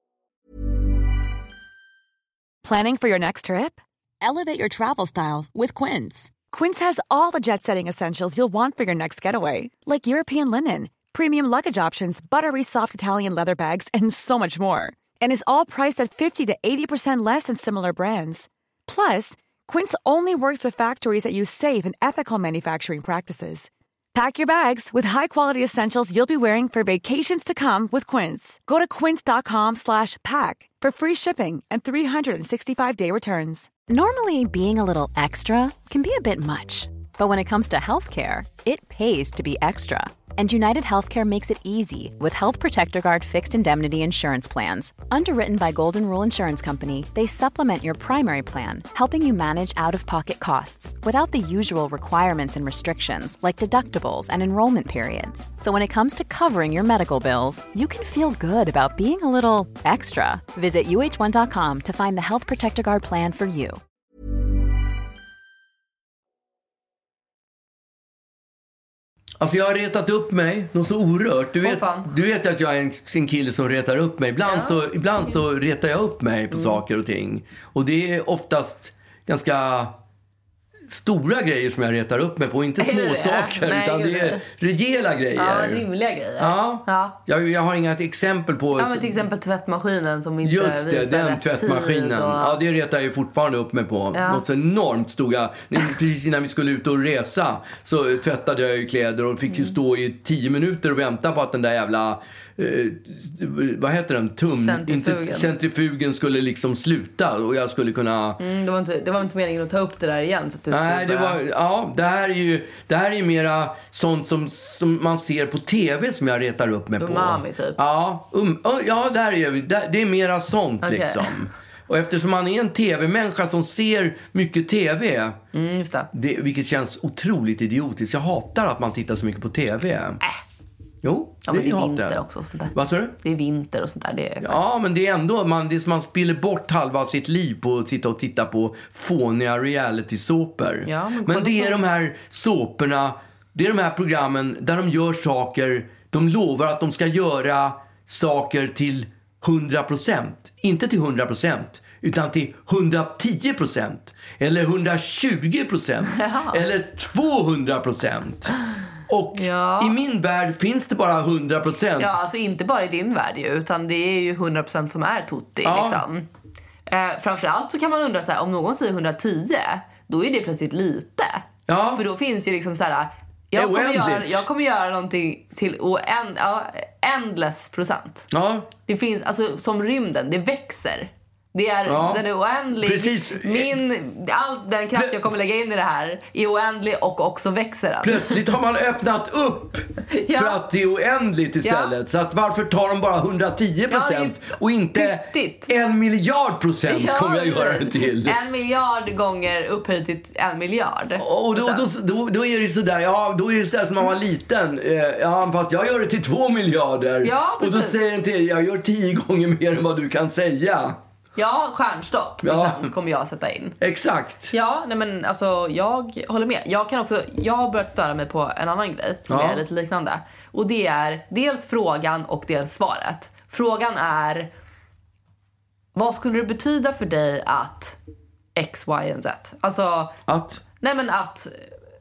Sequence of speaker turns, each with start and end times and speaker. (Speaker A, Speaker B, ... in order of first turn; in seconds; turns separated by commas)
Speaker A: 2.6-33.8, Speaker B: 33.8-63.8, Speaker C: 69.4-80.0, Speaker D: 71.6-72.1, Speaker D: 74.5-74.8, Speaker D: 76.5-76.8, Speaker C: 80.9-85.8, Speaker D: 82.8-84.4, Speaker D: 85.3-87.2, Speaker C: 86.4-89.2, Speaker D: 88.8-92.6, Speaker C: 90.4-108.4, Speaker D: 94.1-94.4, Speaker D: 99.5-99.7, Speaker D: 104.5-105.5, Speaker D: 108.4-111.4, Speaker C: 110.7-125.4, Speaker D: 117.0-117.8, Speaker D: 120.8-121.3, Speaker D: 125.5-126.1, Speaker C: 126.1-130.2, Speaker C: 131.0-132.2, Speaker D: 131.5-134.6, Speaker C: 132.7-133.2, Speaker C: 134.4-158.6, Speaker D: 140.9-141.8, Speaker D: 156.1-156.6, Speaker C: 159.1-162.2, Speaker D: 159.3-160.0, Speaker D: 162.0-166.3, Speaker C: 165.6-166.0, Speaker D: 166.9-178.3, Speaker C: 171.7-172.0, Speaker C: 173.5-174.4, Speaker C: 178.3-178.7, Speaker D: 178.9-188.4, Speaker C: 181.9-182.2, Speaker C: 182.8-183.8, Speaker C: 184.9-185.3, Speaker C: 188.0-198.4, Speaker D: 190.1-190.6, Speaker D: 191.6-191.9, Speaker D: 193.9-195.7, Speaker D: 196.9-201.8, Speaker C: 201.2-211.0, Speaker D: 207.2-208.0, Speaker D: 211.4-213.8, Speaker C: 212.4-212.9, Speaker C: 213.8-214.5, Speaker D: 214.5-224.5, Speaker C: 219.3-219.6, Speaker D: 225.9-228.0, Speaker D: 228.6-230.2, Speaker C: 230.3-230.6, Speaker D: 230.8-231.7